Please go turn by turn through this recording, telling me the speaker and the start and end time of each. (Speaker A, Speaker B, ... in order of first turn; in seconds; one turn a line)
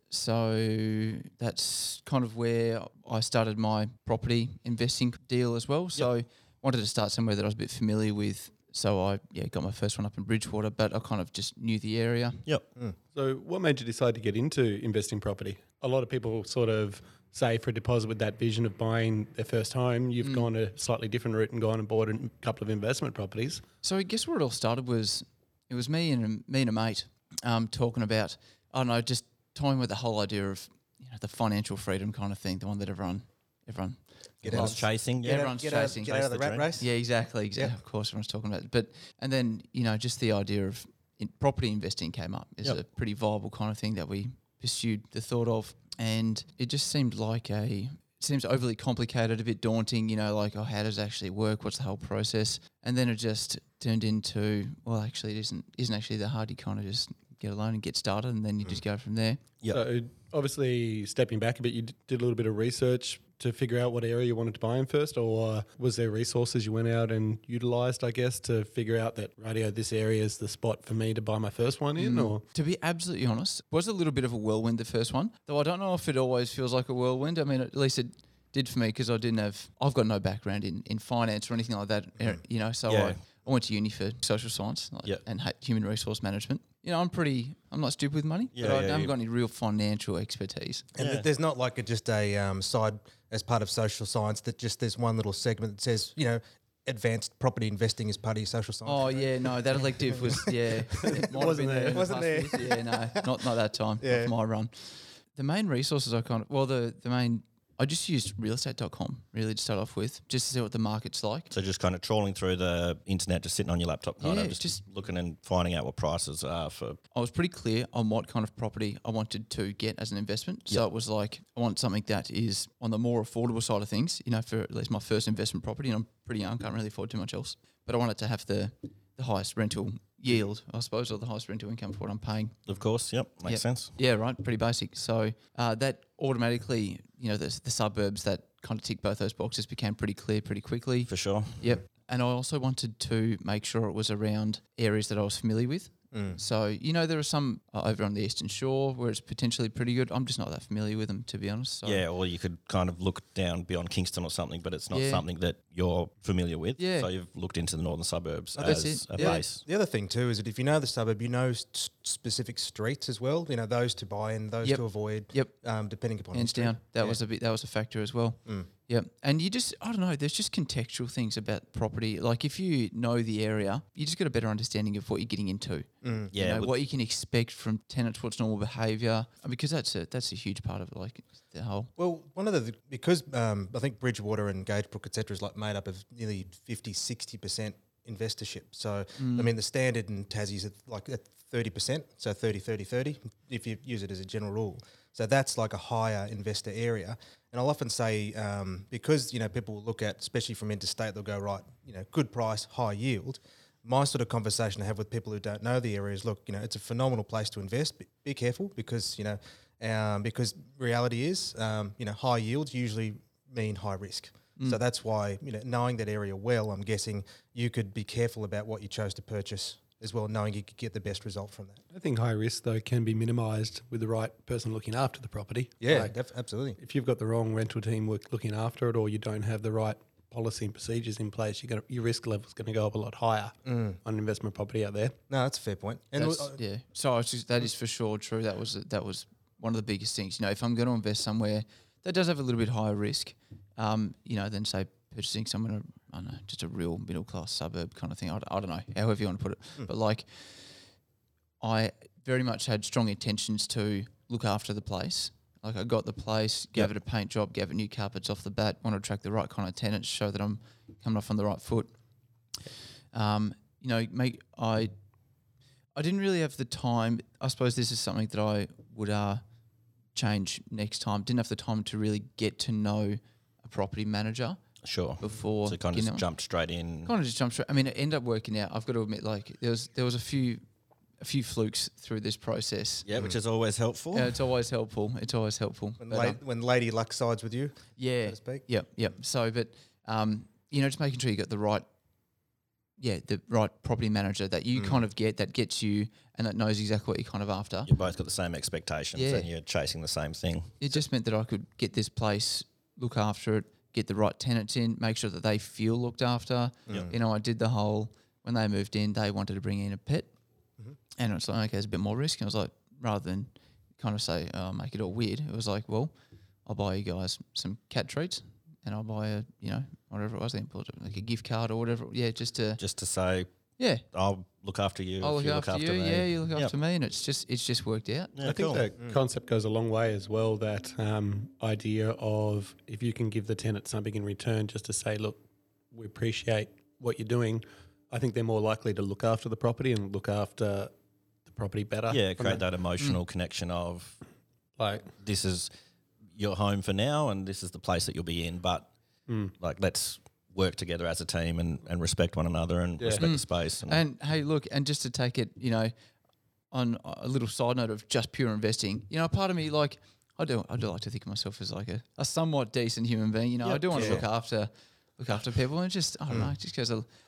Speaker A: 0.1-12.4
Speaker B: 13.1-23.6
Speaker A: 20.2-20.5
Speaker A: 23.8-36.1
Speaker C: 34.4-36.7
Speaker D: 34.4-36.9
Speaker A: 36.8-59.4
Speaker B: 59.7-72.4
Speaker A: 72.0-90.8
Speaker C: 82.9-83.2
Speaker C: 88.5-89.1
Speaker D: 90.9-103.3
Speaker C: 91.0-91.3
Speaker A: 98.8-111.5
Speaker B: 101.0-102.0
Speaker D: 104.0-104.3
Speaker C: 111.5-117.0
Speaker A: 114.2-114.8
Speaker A: 117.1-132.6
Speaker C: 132.7-133.9
Speaker A: 133.4-152.0
Speaker C: 141.1-141.6
Speaker D: 146.1-146.4
Speaker C: 151.8-159.6
Speaker A: 154.9-155.2
Speaker A: 156.8-157.1
Speaker A: 158.6-159.4
Speaker D: 159.2-167.2
Speaker A: 164.6-165.5
Speaker A: 166.3-181.9
Speaker D: 176.0-176.3
Speaker C: 176.3-176.7
Speaker D: 182.0-221.8
Speaker A: 189.2-189.5
Speaker B: 221.9-226.1
Speaker D: 225.8-226.8
Speaker B: 226.8-235.2
Speaker D: 233.7-234.0
Speaker D: 235.3-236.6
Speaker A: 236.2-250.6
Speaker A: 251.6-261.9
Speaker A: 263.1-264.9
Speaker A: 265.9-269.4
Speaker A: 270.1-274.6
Speaker C: 274.8-277.1
Speaker A: 275.2-276.2
Speaker A: 277.0-280.6
Speaker A: 281.2-283.0
Speaker C: 283.0-284.4
Speaker A: 284.1-286.4
Speaker D: 286.0-288.6
Speaker A: 288.0-291.9
Speaker A: 293.0-297.9
Speaker C: 297.9-300.8
Speaker A: 299.1-299.5
Speaker A: 300.8-310.3
Speaker D: 306.9-307.1
Speaker A: 311.2-316.1
Speaker A: 316.6-322.8
Speaker C: 322.8-323.5
Speaker A: 323.8-324.0
Speaker C: 324.1-326.7
Speaker A: 325.2-328.4
Speaker C: 328.4-328.8
Speaker B: 328.4-335.4
Speaker B: 335.9-340.9
Speaker B: 341.5-342.6
Speaker C: 342.1-344.2
Speaker B: 344.8-345.1
Speaker C: 345.2-345.7
Speaker C: 346.4-348.9
Speaker B: 349.3-349.5
Speaker C: 349.6-354.0
Speaker B: 353.0-353.2
Speaker A: 353.2-355.9
Speaker A: 356.7-367.1
Speaker D: 363.7-364.2
Speaker C: 363.9-364.2